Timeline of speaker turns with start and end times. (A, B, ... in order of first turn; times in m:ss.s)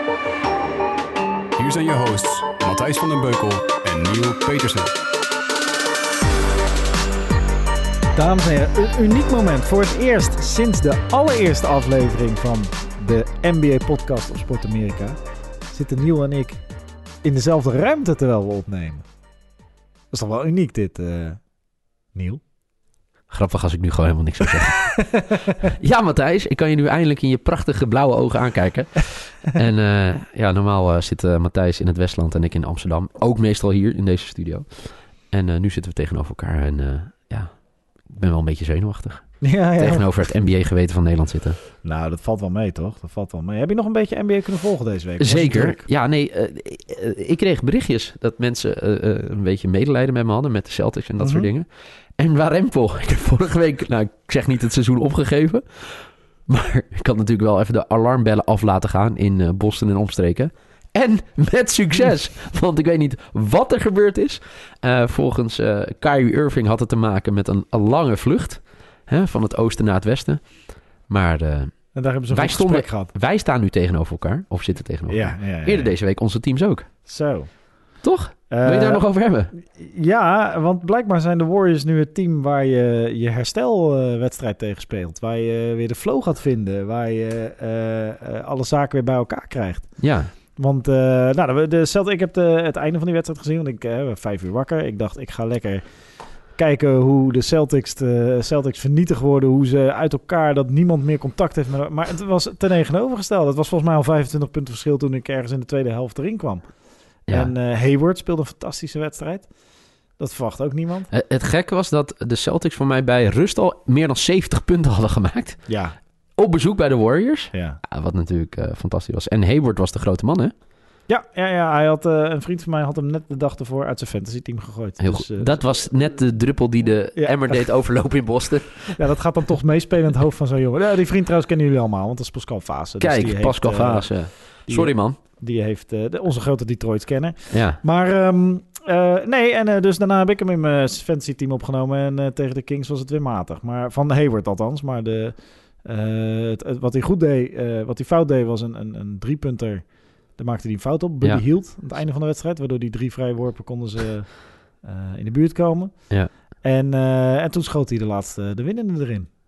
0:01.6-0:04.9 A
0:08.1-0:16.6 B
0:17.2-0:19.0 B
0:20.1-0:22.4 B
0:23.3-0:25.2 C
0:25.7-0:41.6 C
0:39.4-0:40.1 B
0:41.8-0:45.8 B
0:45.2-1:16.9 C
0:51.2-0:51.5 B
1:11.9-1:13.1 B
1:15.1-1:15.9 B
1:17.0-1:51.1 B
1:18.0-1:19.5 C
1:30.0-1:30.3 C
1:47.3-1:47.5 C
1:51.1-2:00.5 C
1:55.7-1:56.0 B
1:57.5-1:57.8 B
2:01.1-2:05.9 B
2:05.0-2:09.0 C
2:07.1-2:08.4 B
2:08.9-2:39.3 B
2:13.0-2:15.2 C
2:17.5-2:17.8 C